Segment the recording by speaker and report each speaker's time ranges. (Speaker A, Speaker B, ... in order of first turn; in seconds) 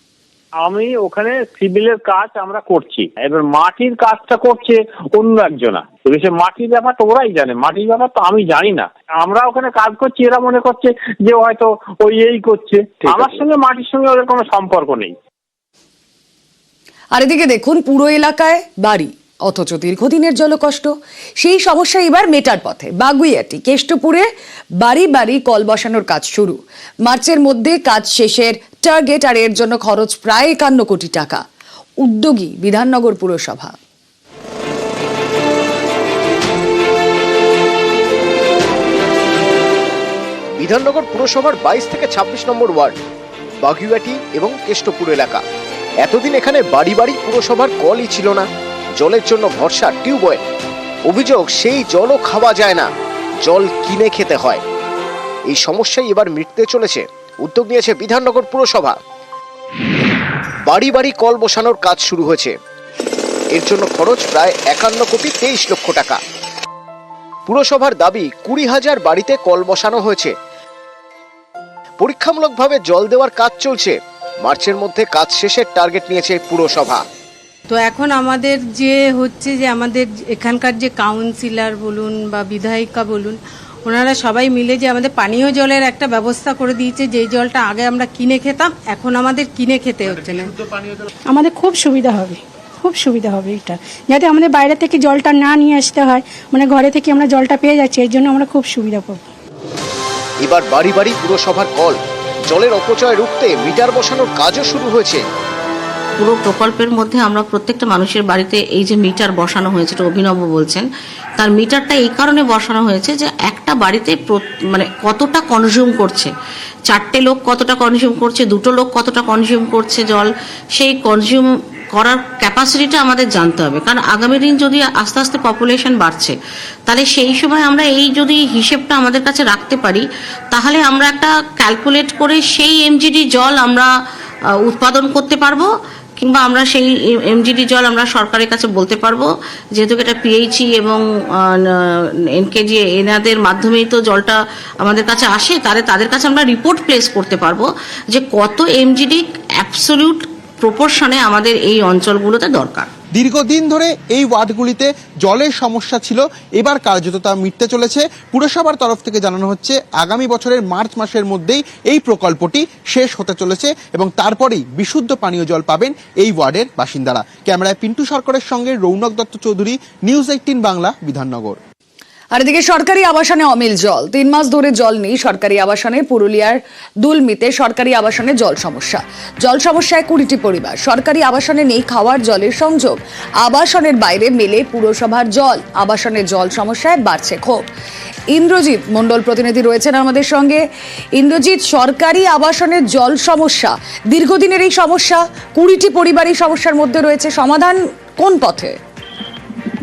Speaker A: 0.6-15.1
Speaker B: 17.1-24.3, 24.8-31.4, 32.0-33.8, 172.3-187.7, 188.3-190.6, 191.2-198.8
Speaker C: 40.6-43.0, 43.6-45.4, 46.0-48.5, 49.0-50.4, 51.1-52.9, 53.4-54.6, 55.5-59.0, 60.7-62.5, 63.5-66.2, 67.5-70.3, 72.0-77.0, 100.4-105.2
Speaker D: 77.7-90.4
Speaker E: 91.3-99.2
Speaker F: 106.2-110.9, 111.4-116.3, 116.9-126.4, 126.9-133.9, 134.7-141.0, 142.4-152.9
Speaker G: 153.1-171.6